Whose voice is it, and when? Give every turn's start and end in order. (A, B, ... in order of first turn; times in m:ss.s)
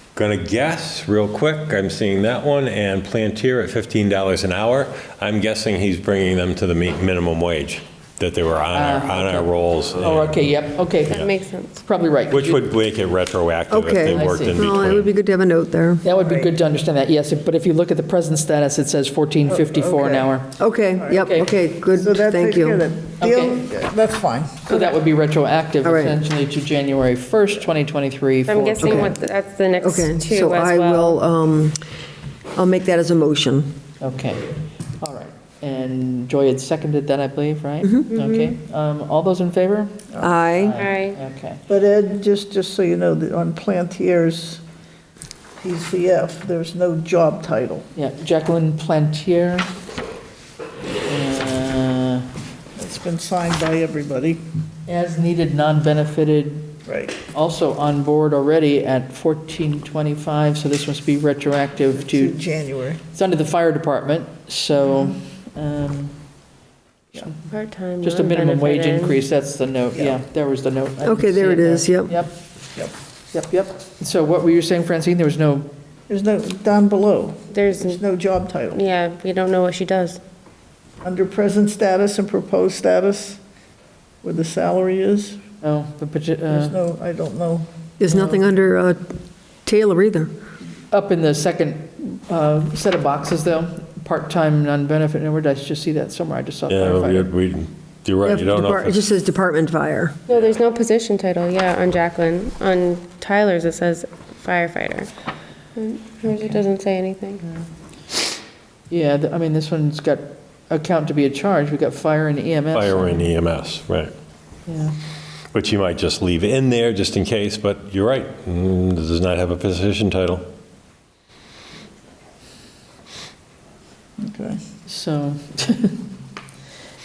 0:00.2-0:10.5 A
0:08.7-0:11.3 B
0:11.1-0:11.8 C
0:11.8-0:12.7 B
0:12.3-0:15.1 A
0:13.7-0:16.0 D
0:14.1-0:14.8 B
0:16.0-0:20.5 B
0:16.2-0:16.5 E
0:19.5-0:20.3 E
0:20.6-0:22.8 D
0:21.2-0:21.5 B
0:21.9-0:24.8 E
0:23.2-0:23.7 B
0:24.7-0:29.2 B
0:25.8-0:26.2 D
0:28.5-0:31.2 C
0:28.8-0:29.1 D
0:29.8-0:31.8 D
0:32.6-0:33.7 D
0:34.0-0:40.0 B
0:38.1-0:38.5 C
0:40.2-0:40.8 D
0:40.5-0:41.6 B
0:40.8-0:41.2 C
0:41.7-0:44.6 E
0:45.6-0:47.9 E
0:48.0-0:49.7 B
0:51.1-0:52.3 B
0:52.8-0:54.4 E
0:54.9-0:56.8 B
0:56.9-0:57.2 E
0:57.3-1:02.4 B
1:02.0-1:03.0 E
1:03.1-1:06.2 B
1:07.2-1:07.4 B
1:07.5-1:09.2 C
1:08.0-1:12.3 B
1:11.0-1:12.1 D
1:13.3-1:15.7 B
1:16.1-1:18.8 E
1:17.5-1:18.0 C
1:18.7-1:20.2 C
1:21.0-1:23.4 E
1:24.2-1:25.4 E
1:25.6-1:26.8 B
1:26.5-1:27.7 E
1:28.0-1:29.1 D
1:28.1-1:28.4 B
1:29.6-1:30.3 D
1:30.9-1:37.3 B
1:36.7-1:39.0 A
1:38.2-1:40.2 D
1:40.3-1:45.1 C
1:45.8-1:47.4 C
1:48.9-1:53.2 B
1:52.7-1:54.1 A
1:54.7-1:55.0 B
1:55.5-2:00.4 A
2:04.2-2:04.6 E
2:04.9-2:06.0 B